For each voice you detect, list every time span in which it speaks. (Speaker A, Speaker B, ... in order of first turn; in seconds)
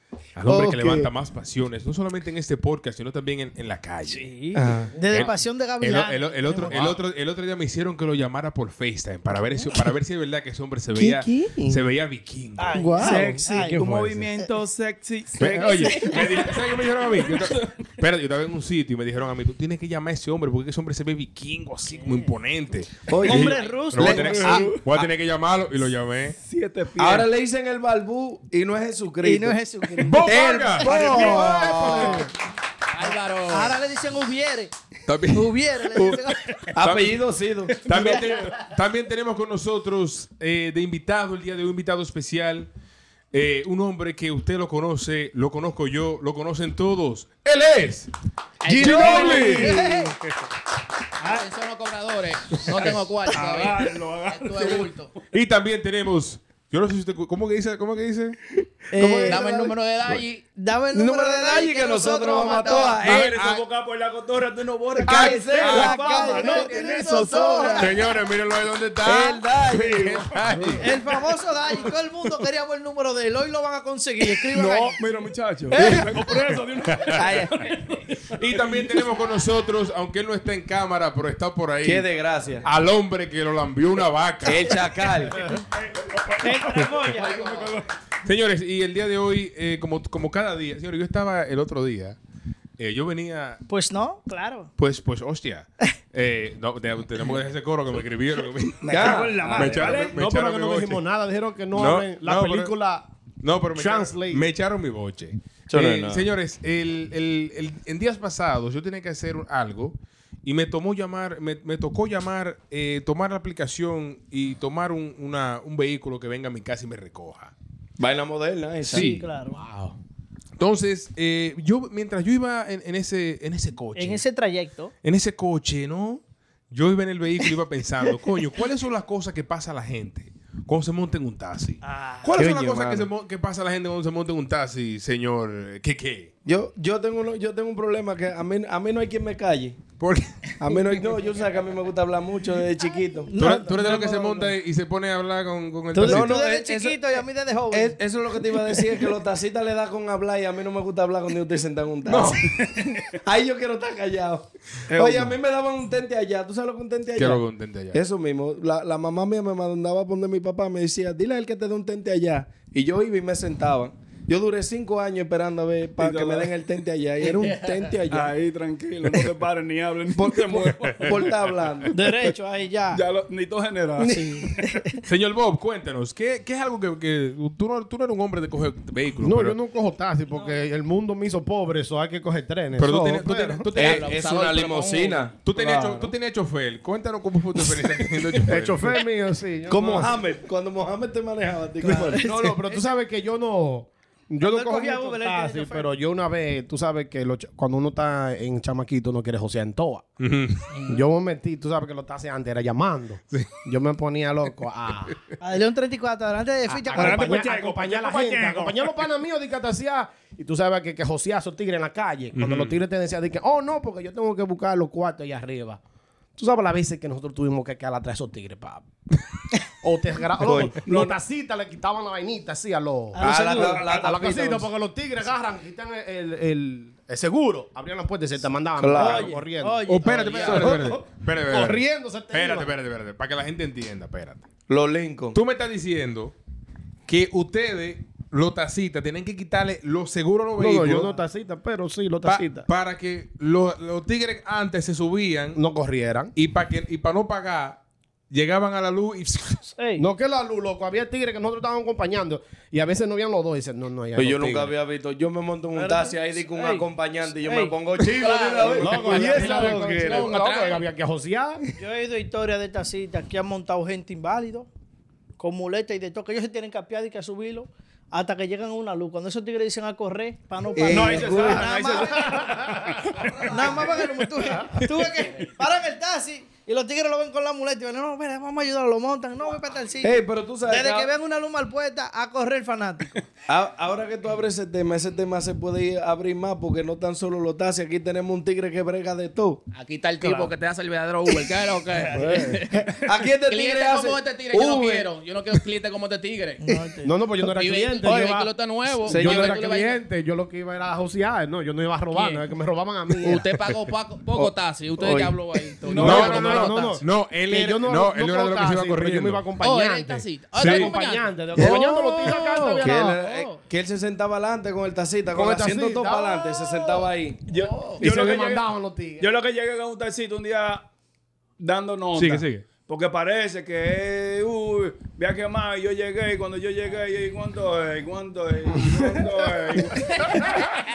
Speaker A: 0.3-4.3, 5.0-12.9, 13.8-14.2, 15.4-26.4, 30.0-32.3, 35.1-37.2, 37.8-42.7, 43.3-48.1, 48.8-49.8, 55.3-58.4, 63.0-63.6, 65.6-66.0, 67.8-71.0, 75.8-77.2, 78.3-82.0, 82.6-84.9, 88.2-92.2, 92.8-93.6, 94.8-101.0, 101.7-102.7, 103.4-117.5, 118.8-119.9, 120.6-124.2, 125.0-136.3, 140.0-140.7, 143.3-146.3, 157.2-158.0, 175.0-179.6, 182.8-184.1, 185.4-189.0, 200.2-200.7, 203.3-203.6, 212.3-212.8, 229.8-234.4, 235.3-236.3, 237.1-241.1, 242.2-245.6, 246.3-249.6, 254.4-254.7, 306.0-309.5, 310.5-310.9, 322.1-322.7
Speaker B: 0.4-1.1, 4.5-5.0, 10.9-11.8, 12.8-13.1, 23.1-25.0, 27.0-29.6, 30.2-32.2, 36.7-38.0, 48.6-49.8, 58.9-59.7, 60.9-63.3, 64.9-68.0, 69.0-70.3, 77.1-77.7, 81.8-82.7, 84.4-85.5, 98.9-99.5, 105.7-106.3, 118.0-119.1, 132.3-133.1, 136.4-139.8, 140.6-143.3, 146.0-147.0, 147.7-152.6, 153.2-168.3, 170.1-171.9, 174.0-174.4, 183.8-186.1, 189.7-192.4, 220.4-220.8, 223.2-224.7, 228.8-229.3, 234.7-235.4, 254.2-260.3, 270.8-271.7, 280.0-281.1, 283.5-289.6, 293.0-295.1, 299.0-299.5, 304.3-305.4, 311.5-317.4
Speaker C: 4.0-6.7, 12.6-13.8, 21.9-22.3, 23.2-24.7, 29.2-32.3, 33.5-34.7, 35.3-36.7, 48.9-50.1, 58.9-59.4, 60.6-63.0, 65.0-68.0, 70.8-75.0, 86.4-87.4, 93.7-94.7, 118.9-119.6, 123.9-124.9, 131.8-132.3, 143.3-144.5, 145.9-148.0, 171.9-173.0, 174.0-175.0, 180.3-180.6, 191.8-192.7, 194.4-195.9, 205.4-207.5, 223.1-224.1, 228.9-230.9, 249.8-250.0, 255.8-256.9, 257.4-257.7, 261.8-264.7, 265.4-272.6, 273.4-283.2, 296.6-297.1, 311.6-313.6
Speaker D: 12.8-14.0, 99.5-103.0, 103.7-104.4, 179.2-183.7, 188.5-190.2, 191.8-200.1, 200.8-205.1, 206.7-215.8, 216.4-218.9, 219.8-229.8, 230.6-232.7, 240.6-242.7, 245.5-246.3, 250.0-254.7, 258.7-261.6, 272.2-273.2, 292.1-292.8, 297.0-303.5, 305.9-313.2, 315.3-316.8, 318.0-319.3
Speaker E: 12.9-17.6, 24.5-24.8, 26.4-27.3, 37.9-38.7, 48.8-49.9, 52.8-55.0, 62.7-67.9, 70.1-70.7, 74.5-79.1, 85.8-87.9, 98.8-100.2, 152.1-153.1, 154.9-155.3, 166.0-166.5, 168.1-171.4, 172.9-174.2, 206.9-208.9, 220.8-221.1, 270.8-274.9, 305.8-306.5, 317.5-318.6, 319.2-320.8, 321.6-330.8
Speaker F: 23.3-23.8, 32.9-33.8, 48.6-49.9, 51.2-55.1, 59.2-60.4, 87.1-87.8, 167.3-167.9, 183.7-185.3, 230.1-230.8, 258.0-260.9, 289.7-296.6, 297.4-300.0, 302.1-302.4, 303.2-307.0, 309.6-311.3, 317.5-318.0